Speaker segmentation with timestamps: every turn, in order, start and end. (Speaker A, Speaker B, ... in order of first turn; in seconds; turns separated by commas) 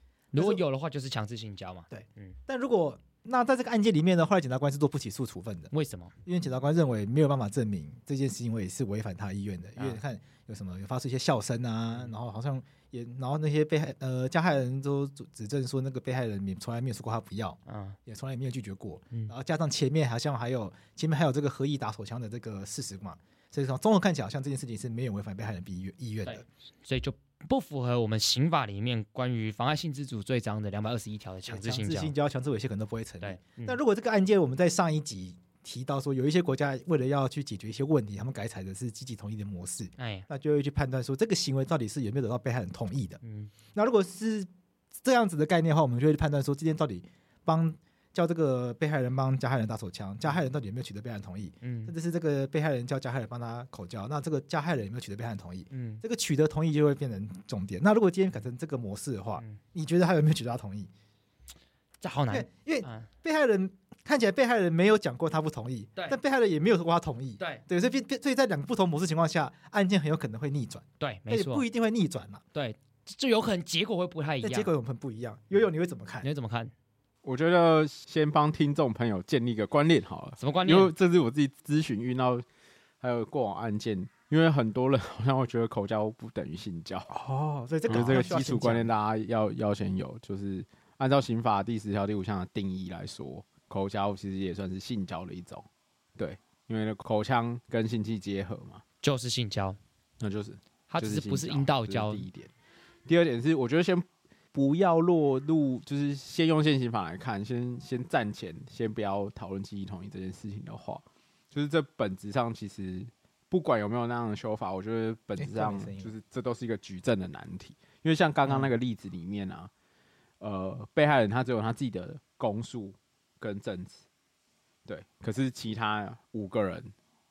Speaker A: 0.3-0.6, Speaker B: 0.3-2.3, Speaker A: 1.9-5.7, Speaker B: 5.7-6.1, Speaker A: 6.2-26.4, Speaker B: 17.6-18.0, Speaker B: 26.2-32.1, Speaker A: 31.5-43.2, Speaker B: 33.2-33.8, Speaker B: 40.0-40.2, Speaker B: 43.2-43.5, Speaker A: 43.7-44.5, Speaker A: 45.0-60.9, Speaker B: 51.6-51.9, Speaker B: 55.7-56.0, Speaker B: 62.0-63.1, Speaker A: 62.3-72.4, Speaker B: 71.0-71.6, Speaker B: 72.5-74.7, Speaker A: 74.4-76.3, Speaker B: 76.2-76.7, Speaker C: 77.2-82.4, Speaker B: 80.4-80.9, Speaker C: 83.0-87.1, Speaker A: 87.1-88.9, Speaker C: 87.9-95.6, Speaker C: 96.2-98.8, Speaker B: 99.0-99.8, Speaker C: 100.2-102.5, Speaker B: 100.9-102.2, Speaker C: 103.1-119.7, Speaker A: 115.4-116.1, Speaker C: 120.4-124.0, Speaker C: 124.8-126.9